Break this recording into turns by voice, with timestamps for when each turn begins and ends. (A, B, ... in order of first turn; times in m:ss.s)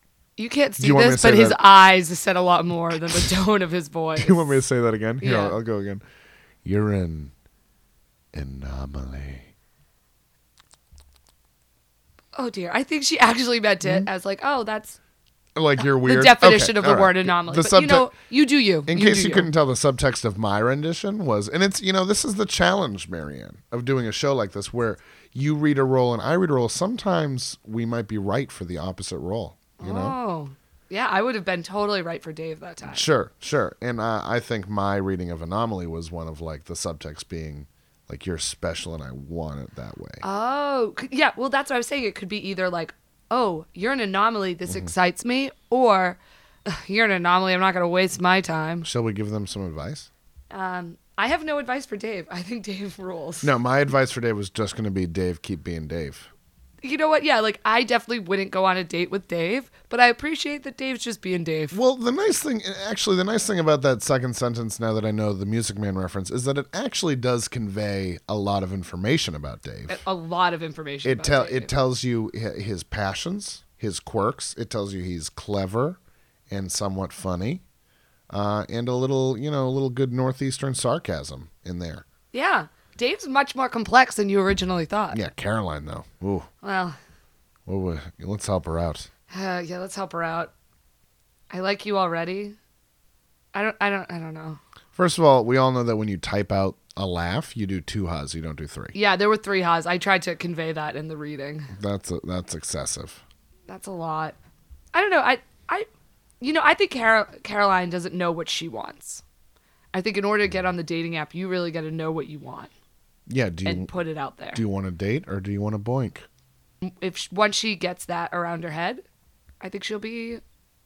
0:00.4-0:04.6 A
0:00.8-0:01.6 B
0:04.2-0:06.0 B
0:05.2-0:05.6 A
0:06.6-0:07.3 B
0:08.3-0:09.5 B
0:12.3-0:15.0 A
0:13.8-0:14.1 B
0:15.6-0:18.1 B
0:15.8-0:19.5 A
0:18.9-0:30.2 B
0:29.8-0:33.0 A
0:32.8-0:40.2 B
0:40.2-0:48.9 A
0:44.7-0:44.9 B
0:48.8-0:50.1 B
0:50.5-0:53.5 A
0:53.4-0:56.3 B
0:56.8-1:01.8 A
1:01.7-1:10.0 B
1:09.9-1:11.7 A
1:11.0-1:16.0 B
1:16.5-1:17.6 B
1:18.3-1:22.0 B
1:22.3-1:25.2 A
1:25.1-1:26.5 B
1:26.6-1:27.0 A
1:27.6-1:29.1 B
1:29.3-1:30.5 A
1:31.5-1:32.6 A
1:33.5-1:34.6 A
1:34.9-1:38.9 B
1:38.9-1:41.7 A
1:41.7-1:43.2 B
1:43.7-1:44.4 A
1:44.9-1:45.9 A
1:46.4-1:49.2 A
1:49.9-1:52.7 A
1:53.3-1:53.9 B
1:53.6-1:54.6 A
1:54.5-1:56.2 B
1:56.8-1:59.0 A
1:59.6-2:00.4 A